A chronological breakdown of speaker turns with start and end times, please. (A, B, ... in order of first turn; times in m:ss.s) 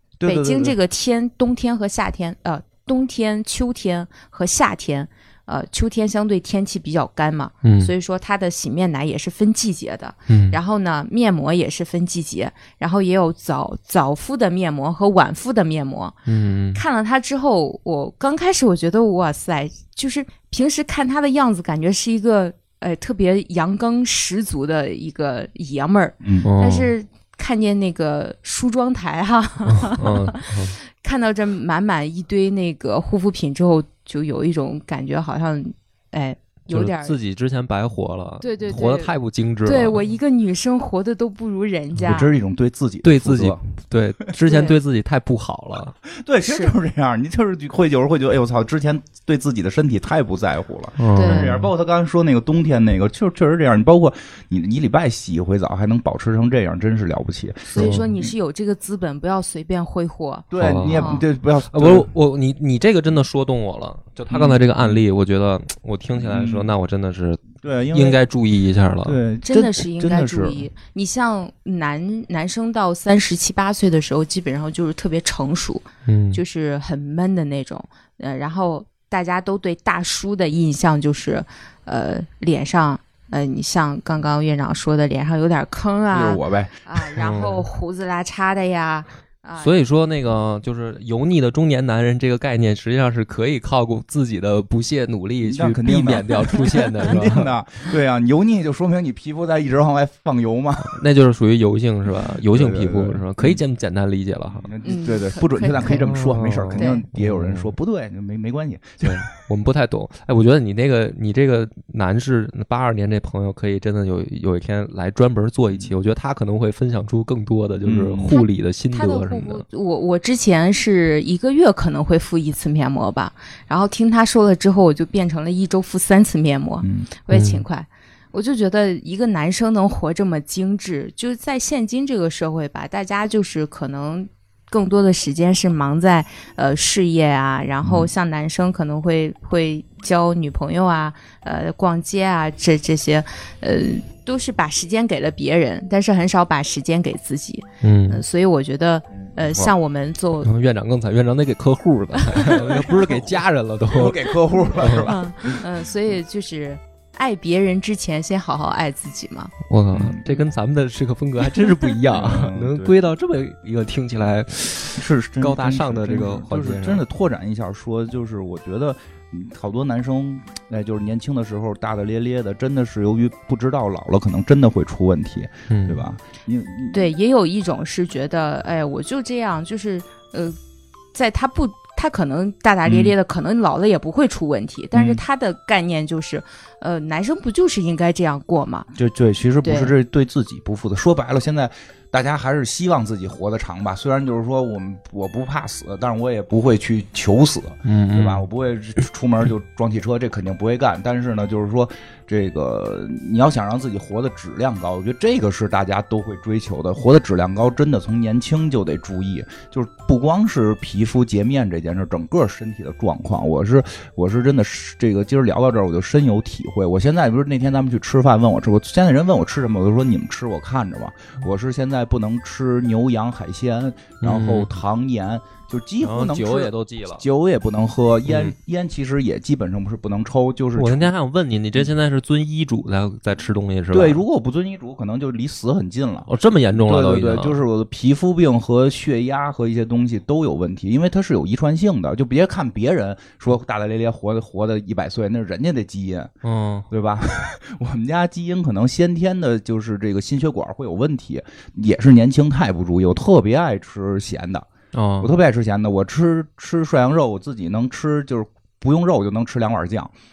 0:00.2-0:00.8 A
0:00.2-0:16.2 B
0:07.6-0:07.9 C
0:10.3-0:10.6 C
0:16.3-0:16.8 C
0:16.7-0:37.2 B
0:26.2-0:26.5 A
0:26.4-0:26.9 C
0:29.6-0:30.8 C
0:36.7-0:40.0 C
0:38.4-0:39.1 B
0:39.6-0:42.3 B
0:42.0-0:43.6 A
0:43.0-0:45.9 C
0:44.5-0:44.8 B
0:46.0-0:58.3 A
0:46.4-0:46.8 B
0:51.0-0:51.7 C
0:51.2-0:51.6 B
0:57.7-1:01.2 B
0:57.8-0:58.0 C
1:00.5-1:02.1 A
1:00.6-1:09.2 C
1:04.3-1:05.0 A
1:06.2-1:06.7 A
1:07.6-1:08.2 A
1:09.0-1:10.6 A
1:09.4-1:29.8 B
1:16.0-1:16.4 C
1:26.1-1:27.1 A
1:27.2-1:27.7 C
1:29.6-1:37.5 C
1:35.4-1:41.0 A
1:40.8-1:44.7 C
1:42.4-1:43.6 A
1:44.5-1:49.2 A
1:44.8-1:46.1 B
1:45.8-1:47.7 C
1:46.7-1:47.1 B
1:49.0-1:59.6 C
1:57.8-1:58.4 A
1:58.3-2:30.5 B
2:06.8-2:07.1 A
2:07.3-2:07.6 C
2:17.8-2:18.1 A
2:27.8-2:28.2 C
2:30.4-2:34.2 C
2:32.2-2:32.6 B
2:32.5-2:35.6 A
2:34.6-2:39.5 B
2:34.8-2:35.1 C
2:39.7-2:47.0 C
2:39.9-2:40.4 A
2:42.1-2:42.9 A
2:45.0-2:57.1 A
2:55.7-2:56.0 C
2:56.9-3:00.6 B
3:01.1-3:08.9 B
3:02.8-3:03.1 A
3:04.9-3:05.2 A
3:08.9-3:51.1 A
3:09.6-3:09.9 B
3:17.8-3:18.4 C
3:44.2-3:44.8 C
3:46.0-3:47.2 C
3:48.3-3:48.5 C
3:50.8-3:54.2 C
3:53.9-4:06.3 A
3:56.3-3:57.6 C
4:06.4-4:06.9 C
4:06.9-4:14.7 A
4:14.9-4:15.3 C
4:15.2-4:20.1 A